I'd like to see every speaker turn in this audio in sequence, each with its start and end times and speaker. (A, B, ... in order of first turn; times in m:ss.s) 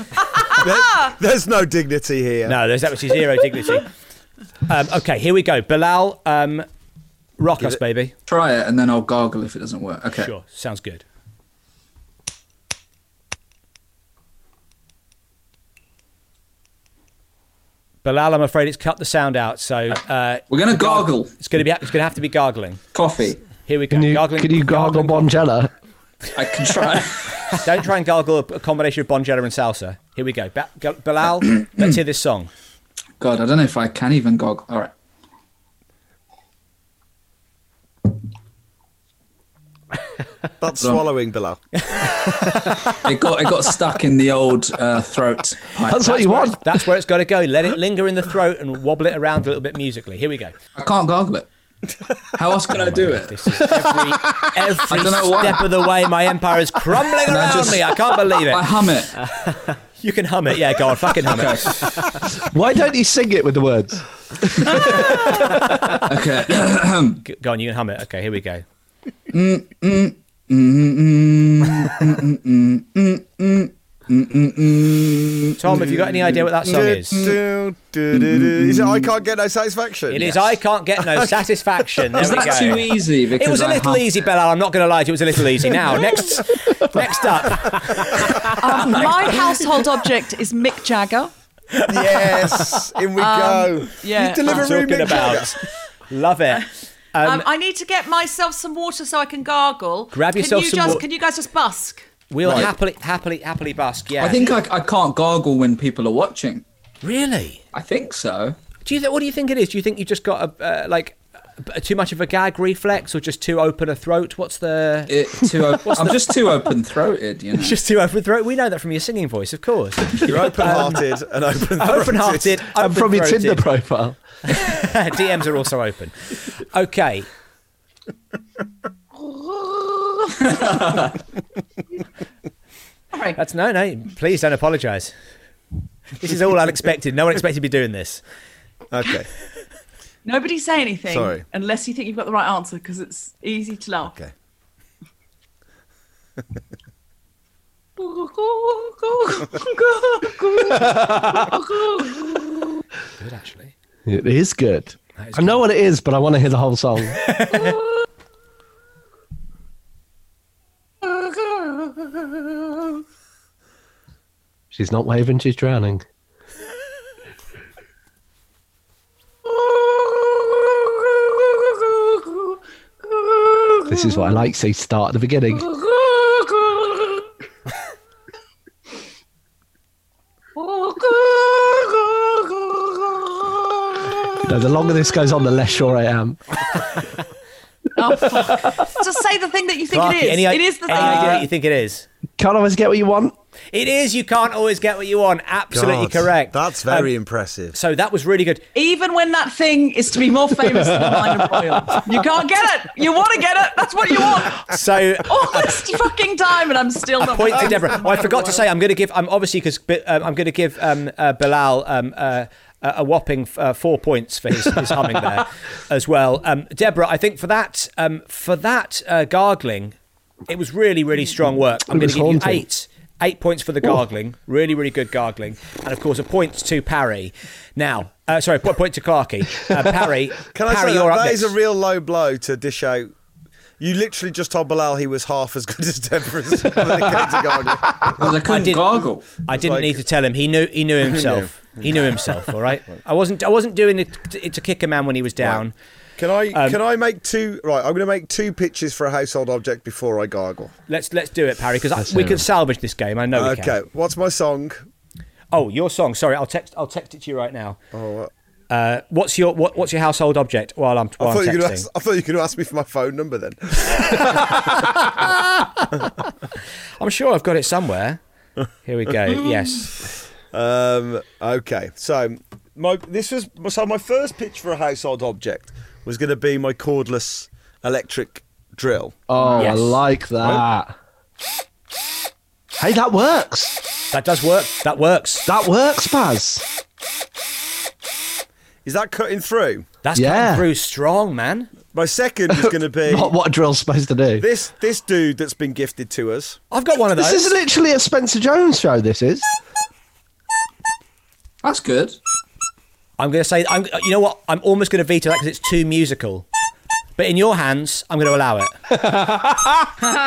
0:00.6-0:02.6 A
0:02.5-0:03.9 B
0:04.7-0:06.7 B
0:07.4-0:08.1 B
0:08.3-0:10.3 C
0:10.2-0:11.0 B
0:18.0-0:22.8 B
0:20.5-0:21.3 C
0:22.9-0:23.4 C
0:23.6-0:25.4 B
0:23.9-0:25.7 D
0:26.3-0:27.6 C
0:27.6-0:32.5 B
0:33.2-0:34.9 C
0:40.6-0:41.6 A
0:42.9-0:46.4 C
0:45.8-0:46.8 D
0:46.1-0:50.5 B
0:50.7-0:51.5 C
0:52.3-0:53.6 C
0:52.7-0:58.6 B
0:53.5-0:54.4 D
0:54.9-0:55.6 C
0:57.2-0:59.3 C
1:00.0-1:01.8 B
1:01.3-1:02.0 C
1:02.3-1:06.0 D
1:04.7-1:07.2 C
1:07.2-1:08.6 B
1:09.3-1:17.4 C
1:15.6-1:17.2 B
1:15.7-1:21.4 A
1:18.1-1:19.1 C
1:20.1-1:28.6 B
1:22.0-1:22.3 A
1:22.2-1:24.1 C
1:28.1-1:28.4 A
1:28.6-1:31.3 E
1:31.9-1:35.6 A
1:33.2-1:35.4 E
1:34.4-1:35.6 B
1:36.1-1:37.4 B
1:37.2-1:42.1 E
1:40.1-1:41.0 B
1:42.3-1:44.4 B
1:42.4-1:42.7 C
1:44.2-1:46.6 C
1:47.0-1:47.6 B
1:47.7-1:48.6 C
1:48.8-1:55.1 B
1:55.1-1:57.8 C
1:55.8-1:56.2 B
1:57.6-2:01.0 B
2:00.2-2:02.6 A
2:01.8-2:03.6 B
2:02.7-2:04.2 D
2:04.4-2:07.3 B
2:10.4-2:11.2 C
2:13.1-2:13.4 E
2:13.4-2:15.1 B
2:16.2-2:18.2 B
2:18.9-2:19.3 A
2:20.2-2:24.2 E
2:21.1-2:21.4 A
2:29.3-2:30.6 E
2:30.6-2:32.4 D
2:33.2-2:33.7 B
2:34.0-2:37.5 D
2:35.2-2:35.6 B
2:37.2-2:37.8 B
2:44.7-2:46.0 D
2:53.8-2:55.7 D
3:04.4-3:06.9 D
3:08.0-3:11.5 E
3:08.2-3:09.0 D
3:09.9-3:12.0 B
3:12.4-3:13.3 D
3:13.7-3:17.1 B
3:15.7-3:17.8 A
3:17.7-3:18.6 B
3:18.7-3:28.6 E
3:24.6-3:25.8 B
3:27.2-3:39.9 B
3:40.5-3:51.5 B
3:41.9-3:42.6 D
3:50.5-3:53.1 A
3:53.8-3:58.3 A
3:58.2-3:59.2 C
3:58.4-4:05.7 B
3:59.5-4:00.0 A
4:01.0-4:02.5 A
4:05.4-4:05.6 A
4:06.2-4:10.7 A
4:06.5-4:06.8 B
4:10.9-4:13.8 B
4:12.0-4:12.4 D
4:13.3-4:14.8 A
4:15.5-4:17.8 B
4:17.9-4:18.3 A
4:18.7-4:21.8 B
4:21.2-4:24.6 A
4:24.4-4:26.1 B
4:27.0-4:28.2 B
4:28.8-4:29.9 B
4:30.5-4:39.8 A
4:39.3-4:40.9 D
4:39.6-4:40.0 B
4:42.8-4:43.8 D
4:44.1-4:45.5 B
4:45.5-4:46.6 D
4:48.8-4:49.9 A
4:50.0-4:51.7 B
4:50.1-4:50.6 D
4:51.9-4:53.3 A
4:52.5-4:54.5 D
4:54.4-4:56.6 A
4:56.7-4:57.5 B
4:57.2-4:59.5 D
5:01.6-5:02.2 C
5:03.2-5:06.4 B
5:07.2-5:08.8 B
5:09.1-5:09.5 D